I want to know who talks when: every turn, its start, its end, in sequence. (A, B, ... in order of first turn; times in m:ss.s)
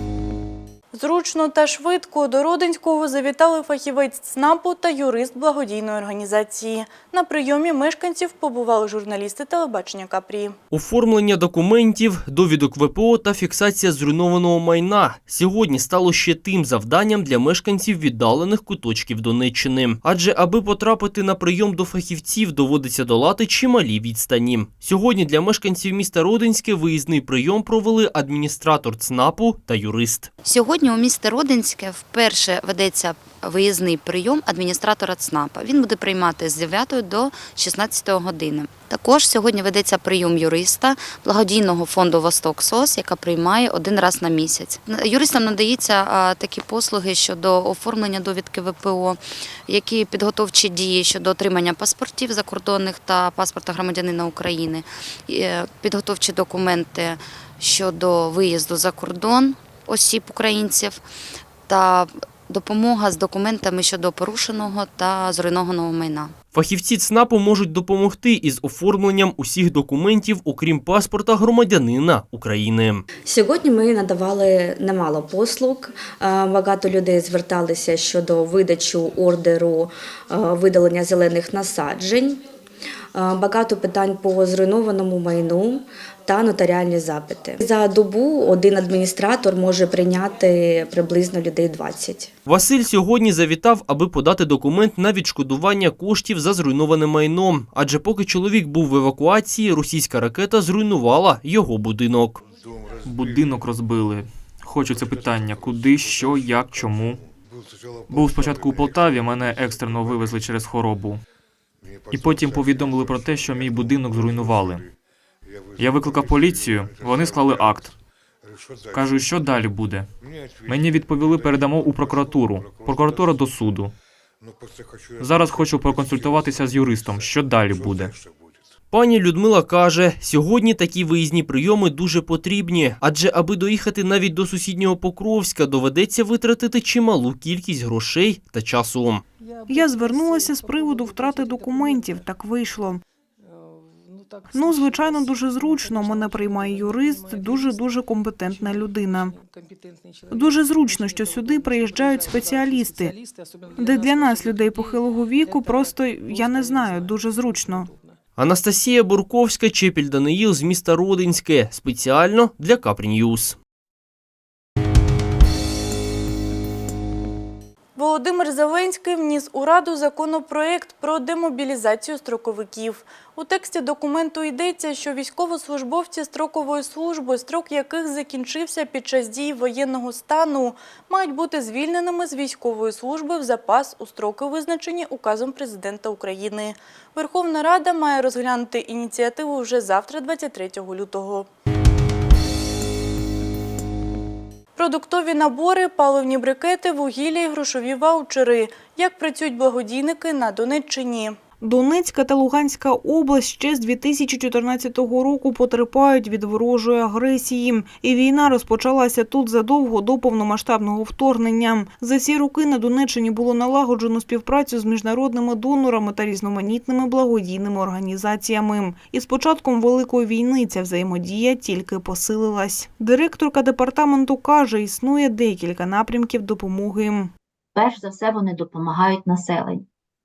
0:00.9-0:10.6 A
0:10.7-0:30.3 B
0:30.4-1:01.0 C
1:01.7-1:06.3 C
1:06.5-1:13.0 B
1:13.2-1:22.4 D
1:23.1-1:32.3 D
1:32.5-1:42.4 B
1:43.0-1:47.2 E
1:48.1-1:51.2 E
1:52.1-1:54.8 E
1:55.8-1:57.9 E
1:58.9-2:00.1 E
2:00.6-2:03.9 E
2:05.2-2:08.2 E
2:08.9-2:19.2 B
2:19.7-2:23.0 F
2:24.5-2:29.4 F
2:30.3-2:33.2 F
2:33.8-2:37.9 F
2:38.4-2:43.6 B
2:48.0-3:11.5 A
3:14.8-3:21.4 A
3:21.6-3:47.3 F
3:47.8-3:49.8 G